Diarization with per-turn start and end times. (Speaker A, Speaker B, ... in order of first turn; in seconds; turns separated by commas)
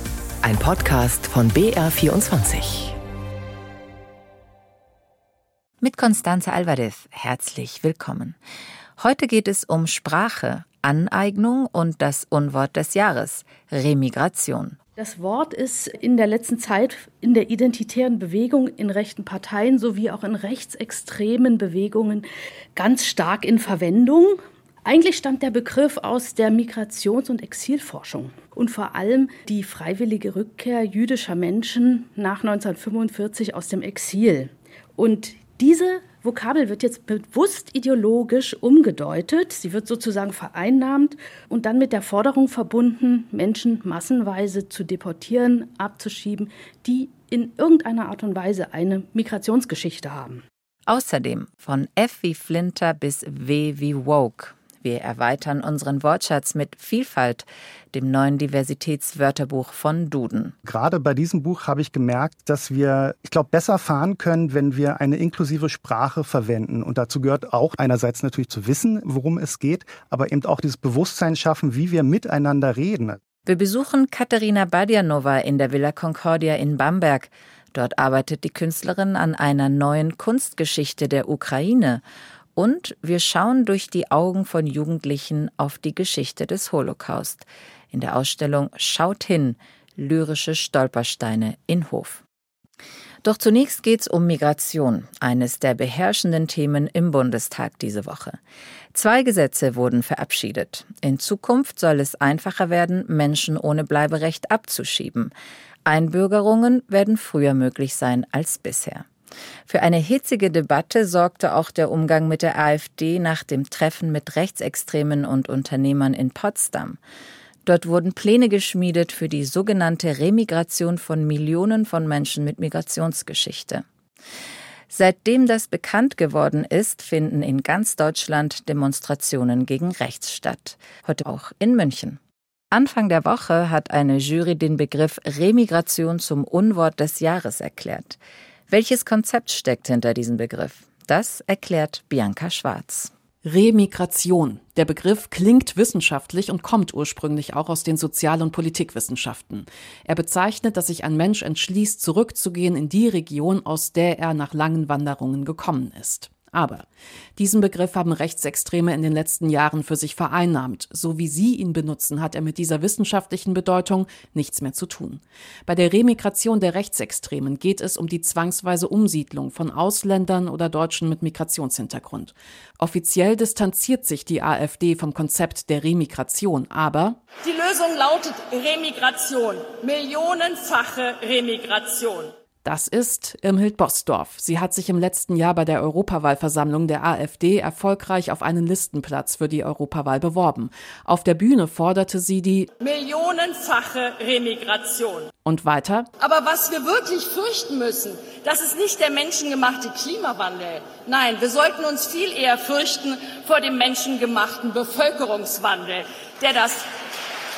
Speaker A: 0.4-3.0, Speaker B: 5.8-8.4, Speaker B: 9.0-14.8, Speaker C: 15.0-50.4, Speaker B: 50.9-60.5, Speaker D: 60.6-73.2, Speaker B: 73.4-82.0, Speaker B: 82.5-92.2, Speaker B: 93.2-98.4, Speaker B: 98.9-105.3, Speaker B: 105.8-109.0, Speaker B: 109.7-117.0, Speaker B: 117.6-123.8, Speaker B: 124.9-132.2, Speaker B: 132.7-138.2, Speaker B: 138.7-143.1, Speaker E: 143.4-156.8, Speaker E: 157.4-177.2, Speaker F: 177.4-182.3, Speaker E: 182.6-192.7, Speaker F: 192.8-195.3, Speaker E: 195.4-196.1, Speaker F: 196.2-206.9